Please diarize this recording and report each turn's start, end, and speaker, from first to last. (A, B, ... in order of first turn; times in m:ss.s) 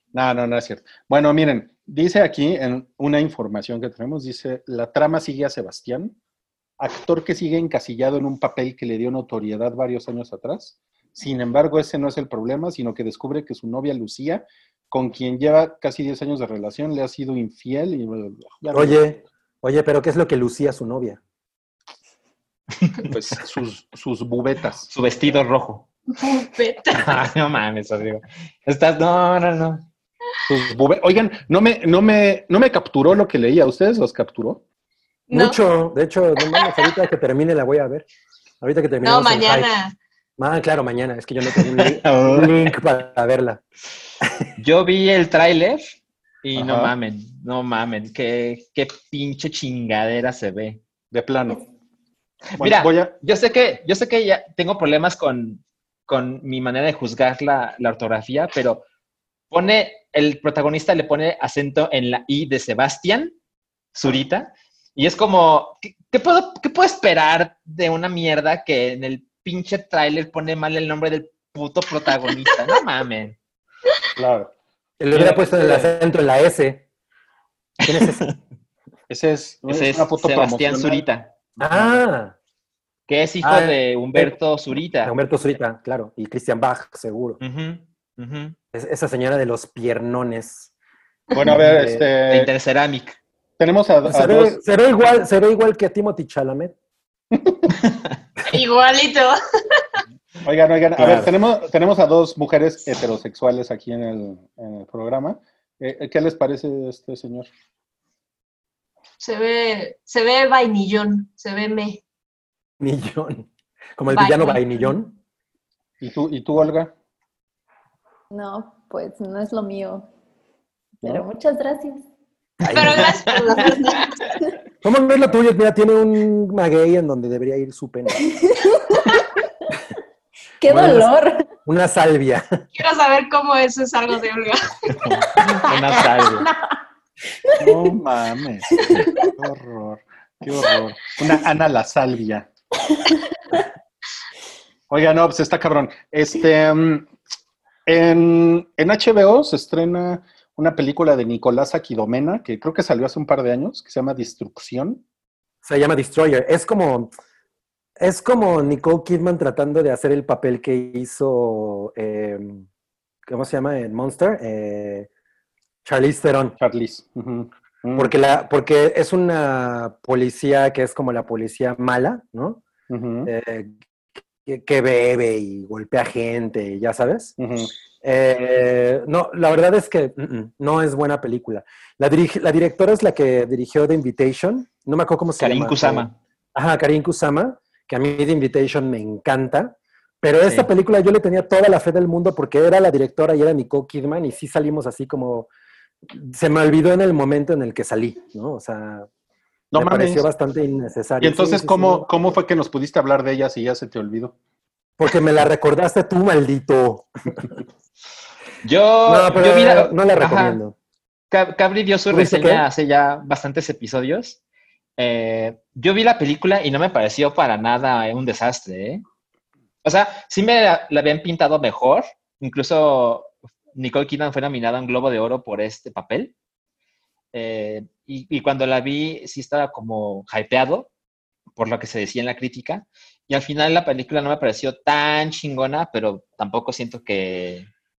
0:00.1-0:06.2 A
0:06.8-0:19.0 A
0:18.7-0:21.2 B
0:23.1-0:24.9 A
0:24.9-0:25.9 C
0:26.2-0:27.1 D
0:27.0-0:29.9 C
0:30.5-0:34.6 A
0:35.3-0:35.6 D
0:35.3-0:38.0 B
0:38.6-0:39.7 B
0:39.0-0:39.9 D
0:40.4-0:43.6 B
0:42.1-0:42.5 C
0:44.6-0:50.8 C
0:46.6-0:46.9 A
0:51.1-0:51.6 A
0:52.6-0:58.8 C
0:52.6-0:53.1 A
0:59.5-1:03.3 C
1:04.0-1:13.4 C
1:14.2-1:14.5 A
1:15.0-1:16.9 B
1:15.1-1:15.9 A
1:17.8-1:18.3 C
1:17.8-1:18.2 B
1:19.1-1:21.0 A
1:19.7-1:21.3 C
1:21.6-1:22.0 A
1:21.6-1:22.4 B
1:23.1-1:25.1 C
1:23.4-1:24.4 B
1:25.0-1:27.4 B
1:27.4-1:28.6 C
1:28.7-1:30.7 B
1:31.4-1:32.5 A
1:31.6-1:32.0 B
1:32.3-1:33.2 C
1:33.6-1:34.6 A
1:34.1-1:36.8 B
1:37.3-1:37.6 A
1:37.8-1:38.1 C
1:38.5-1:39.8 D
1:40.4-1:47.5 A
1:41.0-1:41.3 C
1:49.2-1:52.0 D
1:52.8-1:55.2 B
1:54.1-1:54.9 D
1:56.0-1:56.9 A
1:58.3-2:00.1 E
2:01.0-2:02.0 E
2:02.6-2:03.2 B
2:02.7-2:04.2 D
2:04.8-2:08.3 B
2:08.2-2:09.5 E
2:10.6-2:11.4 E
2:10.7-2:11.0 B
2:11.6-2:12.6 B
2:12.8-2:15.1 D
2:15.0-2:16.5 C
2:15.6-2:16.8 E
2:17.4-2:18.0 E
2:17.6-2:22.5 A
2:18.7-2:19.3 E
2:22.9-2:23.6 E
2:24.9-2:27.1 A
2:27.9-2:35.0 A
2:35.6-2:37.1 B
2:38.0-2:42.7 B
2:43.3-2:45.1 B
2:45.8-2:46.6 B
2:46.6-2:48.1 A
2:48.0-2:52.6 B
2:52.9-2:53.3 A
2:53.3-2:53.7 B
2:54.4-2:57.4 B
2:57.4-2:57.7 A
2:58.0-3:15.5 B
3:05.4-3:06.2 C
3:10.4-3:10.7 C
3:16.1-3:19.1 B
3:19.7-3:20.2 A
3:19.8-3:22.1 B
3:21.2-3:24.4 A
3:25.0-3:27.6 B
3:28.6-3:30.6 C
3:29.1-3:30.8 B
3:31.3-3:34.4 C
3:32.1-3:32.6 B
3:35.0-3:39.0 C
3:39.8-3:46.3 C
3:47.3-3:50.9 C
3:51.6-3:57.7 C